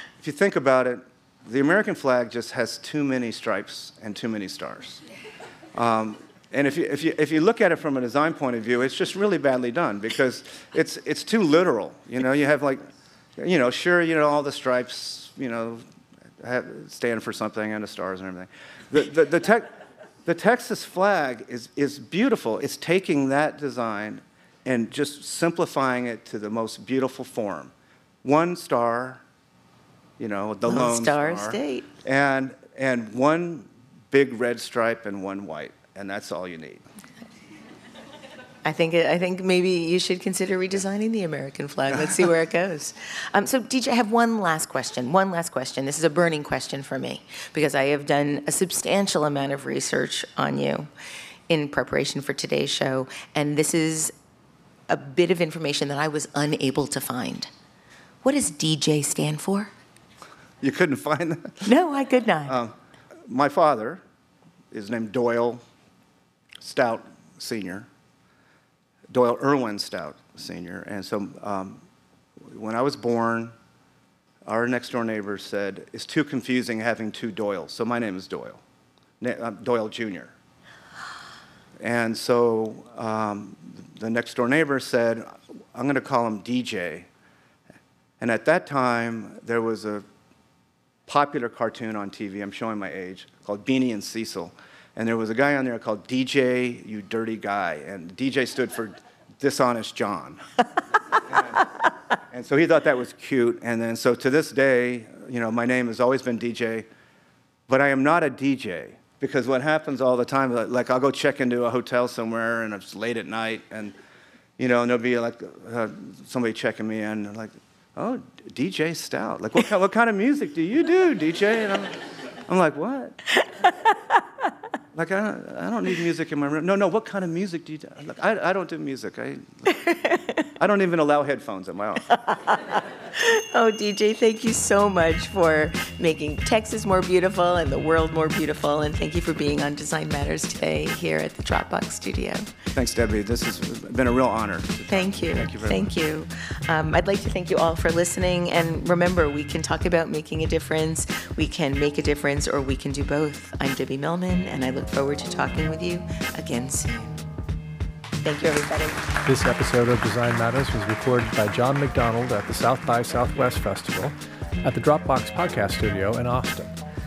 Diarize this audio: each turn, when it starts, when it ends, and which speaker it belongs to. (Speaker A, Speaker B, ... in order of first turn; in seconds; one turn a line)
Speaker A: 0.2-5.0
Speaker A: 5.8-12.8
Speaker A: 13.4-15.8
Speaker A: 16.4-27.7
Speaker A: 28.2-29.2
Speaker A: 30.2-36.8
Speaker B: 30.7-31.9
Speaker B: 38.6-50.9
Speaker B: 51.5-54.1
Speaker B: 54.9-57.5
Speaker B: 58.2-59.7
Speaker A: 60.6-61.7
Speaker B: 61.6-62.6
Speaker A: 62.5-62.8
Speaker A: 63.3-64.0
Speaker A: 64.7-65.6
Speaker A: 66.6-67.9
Speaker A: 69.1-71.8
Speaker A: 72.4-73.5
Speaker A: 74.5-78.6
Speaker A: 79.2-80.3
Speaker A: 81.8-87.1
Speaker A: 88.2-90.0
Speaker A: 91.1-100.5
Speaker A: 101.2-101.7
Speaker A: 102.3-106.9
Speaker A: 107.7-114.0
Speaker A: 114.6-123.2
Speaker A: 124.9-129.7
Speaker B: 129.8-130.3
Speaker A: 130.6-132.1
Speaker B: 132.1-142.5
Speaker A: 142.7-145.9
Speaker B: 144.9-157.2
Speaker B: 158.2-159.1
Speaker C: 159.3-166.8